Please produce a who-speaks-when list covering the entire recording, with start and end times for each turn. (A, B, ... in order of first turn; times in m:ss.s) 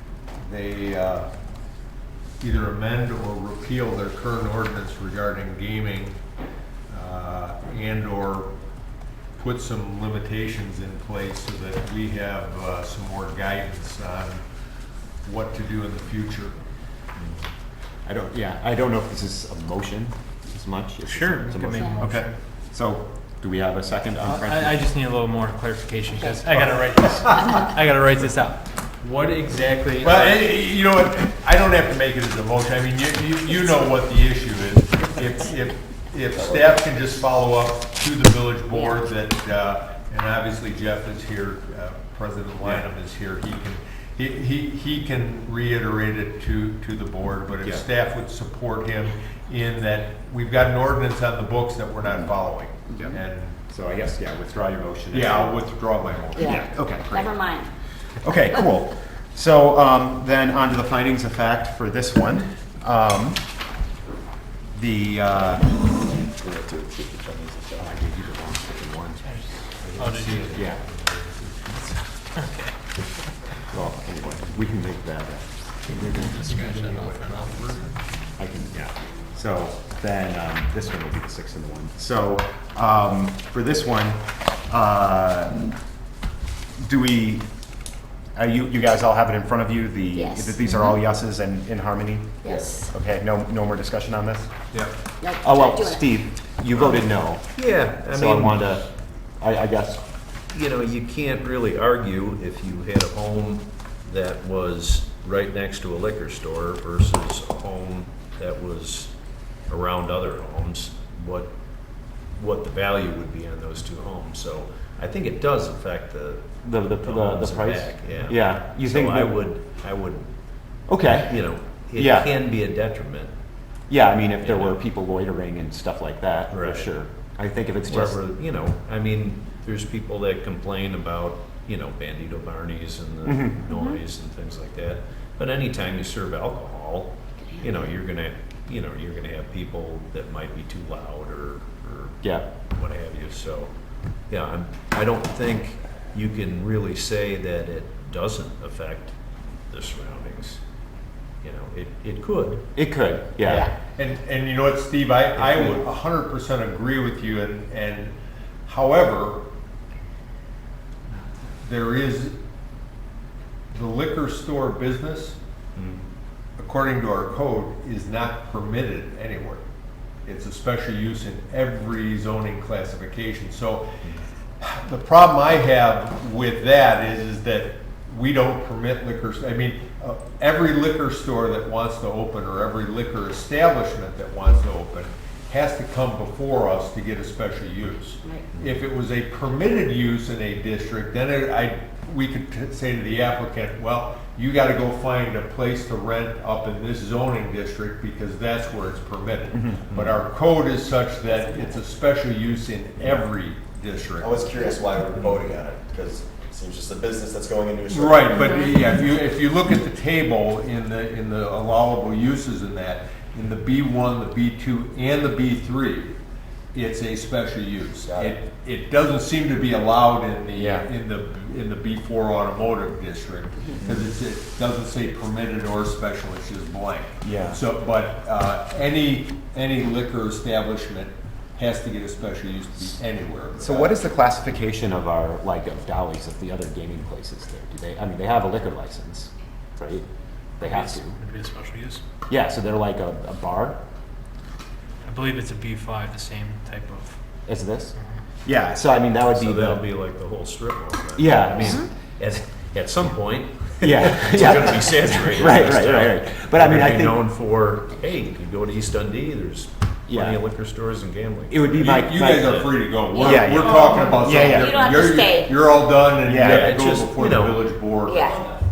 0:00.4-0:01.3 A
0:02.4-0:06.2 A
0:06.9-0:08.5 A
0:09.4-0:14.4 A
0:15.2-0:16.5 A
0:18.0-0:24.8 B
0:21.0-0:22.3 C
0:22.0-0:22.3 A
0:24.2-0:30.4 C
0:30.0-0:53.6 A
0:36.4-0:36.7 D
0:53.7-0:55.7 B
0:55.1-0:56.6 A
0:56.4-0:57.4 B
0:56.4-0:57.7 E
0:58.2-1:03.4 B
1:04.7-1:05.7 B
1:06.2-1:07.9 D
1:07.8-1:09.3 B
1:10.0-1:10.6 C
1:10.0-1:10.5 F
1:10.5-1:10.8 B
1:12.4-1:12.7 C
1:13.7-1:17.2 B
1:16.2-1:16.9 C
1:16.5-1:17.7 D
1:18.4-1:25.6 B
1:26.8-1:27.5 B
1:28.4-1:34.5 B
1:30.1-1:31.0 E
1:32.4-1:32.9 E
1:35.2-1:36.2 E
1:35.4-1:38.9 B
1:37.6-1:38.7 F
1:39.4-1:40.0 B
1:40.5-1:49.1 F
1:49.7-1:51.5 F
1:52.4-2:00.3 F
1:56.6-1:59.4 B
2:00.9-2:01.4 B
2:01.2-2:03.3 F
2:02.0-2:02.4 B
2:03.9-2:08.2 B
2:04.4-2:04.8 F
2:06.5-2:06.9 F
2:07.9-2:22.2 F
2:13.2-2:13.6 B
2:17.4-2:17.8 E
2:22.2-2:22.5 B
2:22.7-2:23.7 F
2:24.3-2:29.1 F
2:29.7-2:30.6 F
2:31.4-2:32.6 F
2:32.8-2:33.7 B
2:33.4-2:33.7 F
2:34.0-2:38.1 A
2:35.4-2:35.8 F
2:38.7-2:39.4 A
2:41.6-2:42.4 A
2:43.7-2:45.4 A
2:45.8-2:46.1 F
2:46.6-2:49.6 A
2:50.2-2:53.9 A
2:54.6-3:24.7 A
3:19.9-3:20.2 F
3:24.2-3:28.6 D
3:27.9-3:36.2 A
3:28.3-3:28.8 E
3:36.7-3:54.0 A
3:38.1-3:38.4 D
3:40.6-3:40.9 B
3:47.2-3:47.6 B
3:53.6-4:00.0 B
4:00.6-4:01.2 B
4:00.6-4:02.0 C
4:02.3-4:03.8 B
4:05.0-4:07.2 C
4:07.5-4:09.8 B
4:09.4-4:22.7 F
4:11.2-4:11.9 B
4:13.8-4:17.2 B
4:20.1-4:20.4 B
4:21.5-4:24.8 B
4:21.8-4:28.4 A
4:23.2-4:25.7 E
4:26.2-4:26.8 B
4:26.4-4:28.6 F
4:28.1-4:28.4 E